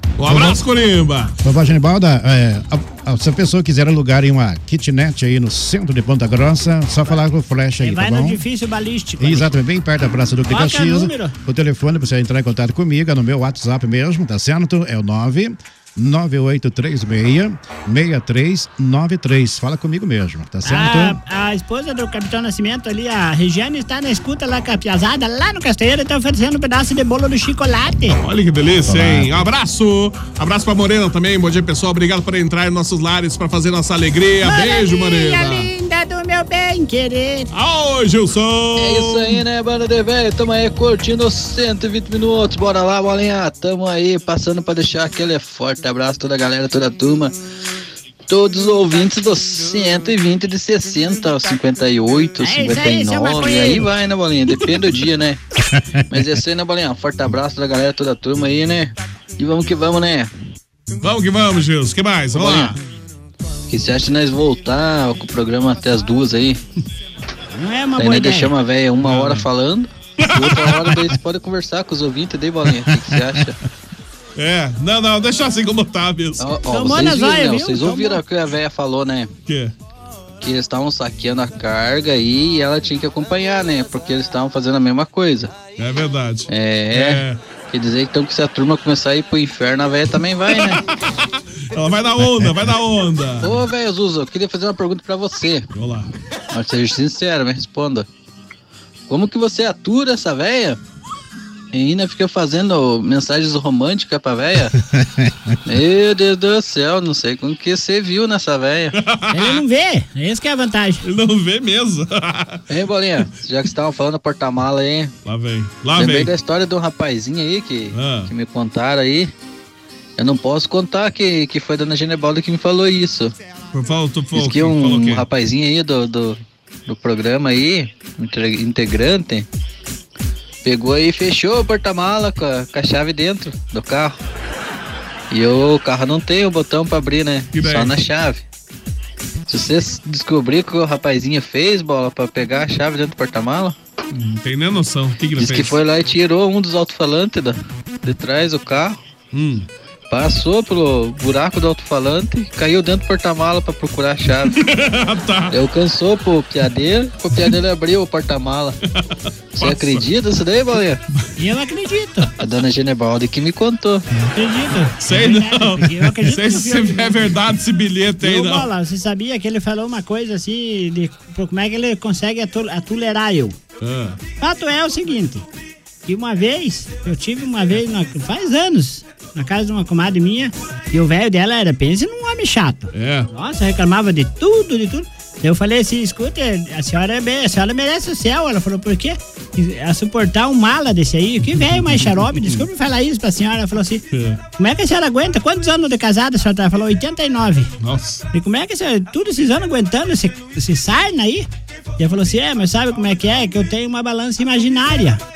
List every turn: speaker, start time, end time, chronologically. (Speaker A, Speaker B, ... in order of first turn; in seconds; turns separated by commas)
Speaker A: 0.2-1.4, Speaker B: 0.3-0.6, Speaker B: 1.4-8.4, Speaker C: 7.8-9.6, Speaker B: 9.2-21.2, Speaker C: 10.5-11.3, Speaker C: 20.6-28.2, Speaker A: 28.2-35.7, Speaker B: 28.9-29.5, Speaker C: 34.4-37.5, Speaker A: 37.5-39.5, Speaker D: 38.8-47.3, Speaker D: 48.3-55.4, Speaker C: 52.4-53.9, Speaker A: 54.5-55.0, Speaker B: 55.6-56.3, Speaker D: 56.1-60.3, Speaker A: 61.0-62.8, Speaker D: 62.3-62.8, Speaker D: 63.7-66.6, Speaker C: 67.5-68.5, Speaker D: 68.0-73.6, Speaker A: 69.0-69.5, Speaker A: 70.2-71.2, Speaker A: 74.4-76.5, Speaker D: 76.4-79.3, Speaker C: 76.7-78.2, Speaker A: 79.5-79.7, Speaker D: 80.4-85.6, Speaker A: 85.8-87.4, Speaker D: 86.5-90.8, Speaker A: 90.5-91.2, Speaker A: 91.7-93.6, Speaker D: 93.4-95.7, Speaker A: 95.7-96.1, Speaker D: 96.5-98.1, Speaker D: 99.1-100.8, Speaker D: 101.7-104.7, Speaker B: 104.8-105.5, Speaker D: 105.7-108.9, Speaker A: 109.0-109.6, Speaker C: 109.3-111.0, Speaker A: 111.0-112.6, Speaker D: 112.7-115.1, Speaker A: 115.2-116.3, Speaker D: 116.0-119.3, Speaker A: 117.9-118.3, Speaker D: 120.2-123.3, Speaker A: 123.7-125.3, Speaker D: 124.3-129.5, Speaker D: 130.7-134.2, Speaker D: 135.3-138.4, Speaker A: 137.5-137.9, Speaker D: 139.5-143.8, Speaker A: 144.1-145.8, Speaker D: 145.4-149.0, Speaker A: 149.3-149.7, Speaker D: 150.1-154.6, Speaker A: 154.4-155.6, Speaker D: 155.5-158.8, Speaker A: 158.9-160.1, Speaker D: 159.6-161.0, Speaker C: 161.4-162.3, Speaker D: 162.4-164.1, Speaker C: 164.3-167.3, Speaker A: 165.0-168.7, Speaker C: 168.2-173.6, Speaker A: 173.8-174.2, Speaker C: 174.4-175.5, Speaker C: 176.1-194.0, Speaker A: 182.9-183.3, Speaker A: 194.1-194.4, Speaker C: 194.6-197.7, Speaker A: 197.8-198.2, Speaker C: 198.3-201.5, Speaker C: 202.0-205.2